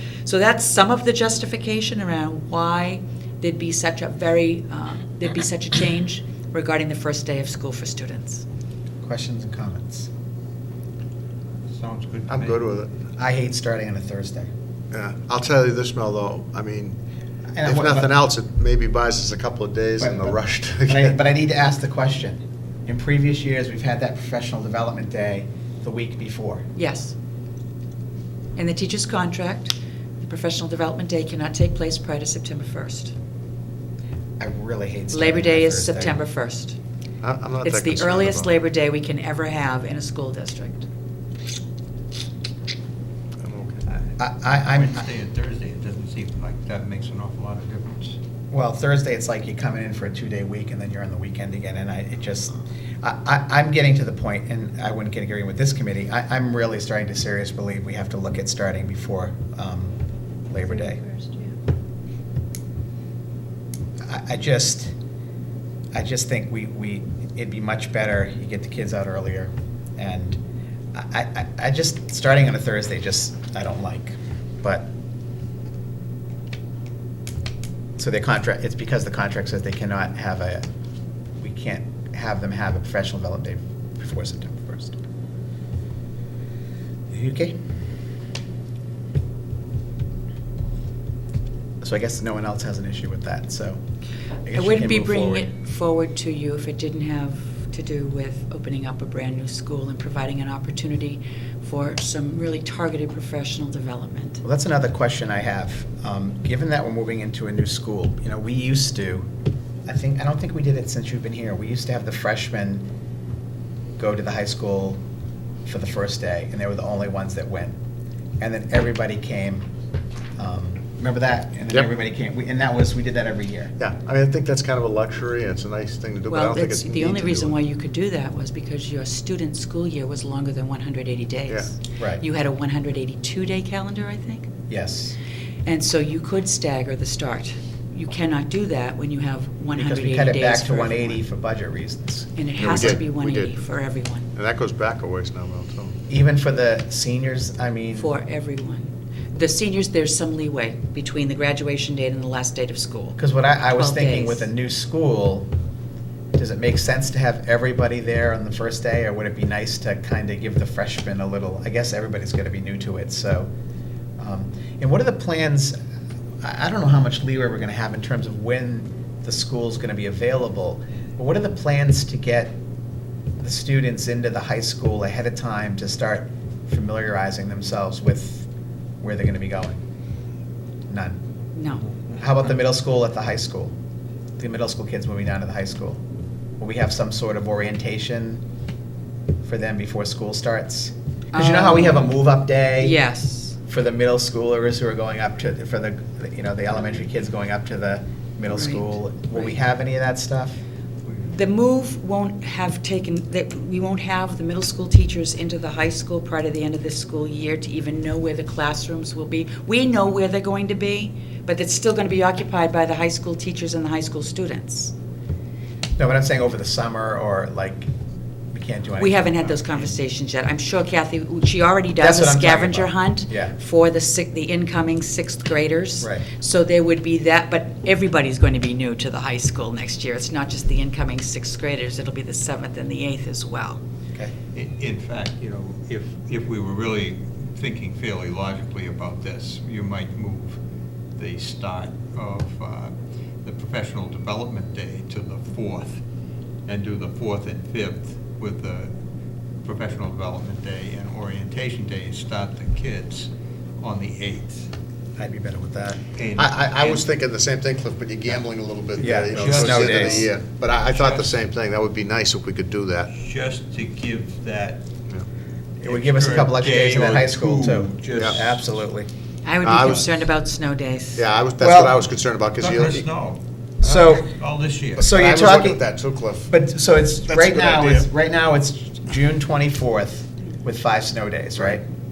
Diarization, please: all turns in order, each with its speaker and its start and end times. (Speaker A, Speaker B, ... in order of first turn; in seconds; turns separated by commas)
Speaker A: 0.2-8.4, Speaker B: 9.0-10.1, Speaker C: 11.7-12.6, Speaker D: 12.3-12.9, Speaker B: 13.2-14.5, Speaker D: 14.9-17.0, Speaker B: 17.5-18.1, Speaker D: 17.6-21.1, Speaker B: 20.0-20.3, Speaker B: 20.9-26.7, Speaker A: 26.8-27.1, Speaker A: 28.6-33.1, Speaker B: 34.4-36.2, Speaker A: 35.1-36.8, Speaker D: 37.2-38.5, Speaker A: 37.6-40.9, Speaker D: 43.4-43.8, Speaker B: 44.2-45.0, Speaker C: 44.6-48.2, Speaker B: 48.5-60.0, Speaker B: 60.5-61.1, Speaker B: 64.0-64.9, Speaker B: 65.9-70.4, Speaker B: 70.9-74.9, Speaker B: 78.0-80.6, Speaker B: 81.4-85.0, Speaker B: 87.1-87.6, Speaker B: 91.8-93.8, Speaker B: 94.4-95.5, Speaker A: 94.5-104.4, Speaker B: 104.4-109.3, Speaker B: 109.8-112.9, Speaker B: 114.0-115.0, Speaker B: 115.6-117.8, Speaker B: 118.4-119.7, Speaker B: 120.4-123.8, Speaker D: 123.8-127.5, Speaker A: 126.3-134.5, Speaker B: 131.9-132.2, Speaker B: 134.7-135.2, Speaker A: 135.6-141.2, Speaker B: 139.7-142.3, Speaker A: 142.3-144.3, Speaker D: 142.6-143.6, Speaker D: 144.3-146.0, Speaker B: 146.1-148.1, Speaker A: 147.9-153.2, Speaker B: 153.2-155.5, Speaker A: 153.7-154.5, Speaker B: 156.3-163.5, Speaker B: 164.2-165.8, Speaker B: 166.4-172.6, Speaker B: 173.4-178.5, Speaker B: 179.0-179.8, Speaker B: 180.9-181.2, Speaker A: 181.5-181.9, Speaker B: 182.2-183.7, Speaker B: 184.4-186.0, Speaker B: 186.6-188.4, Speaker B: 189.4-193.0, Speaker A: 191.3-192.2, Speaker A: 192.8-193.6, Speaker B: 193.7-200.6, Speaker A: 198.5-198.8, Speaker A: 201.2-214.9, Speaker B: 216.0-217.9, Speaker B: 218.5-220.0, Speaker A: 219.0-233.8, Speaker B: 222.0-223.6, Speaker B: 226.0-226.3, Speaker C: 234.5-240.6, Speaker C: 241.2-242.9, Speaker C: 243.4-246.0, Speaker C: 246.7-248.9, Speaker C: 249.6-254.7, Speaker B: 255.2-256.0, Speaker C: 256.2-257.1, Speaker D: 256.3-263.1, Speaker B: 259.0-260.3, Speaker C: 259.2-261.4, Speaker C: 263.1-264.8, Speaker C: 265.8-268.7, Speaker B: 265.8-269.1, Speaker A: 269.4-271.2, Speaker D: 269.6-270.1, Speaker D: 271.1-273.1, Speaker B: 271.6-271.9, Speaker C: 272.6-273.4, Speaker B: 273.8-274.3, Speaker C: 273.9-275.1, Speaker B: 275.0-275.8, Speaker D: 275.0-276.5, Speaker B: 276.5-281.8, Speaker D: 277.2-278.1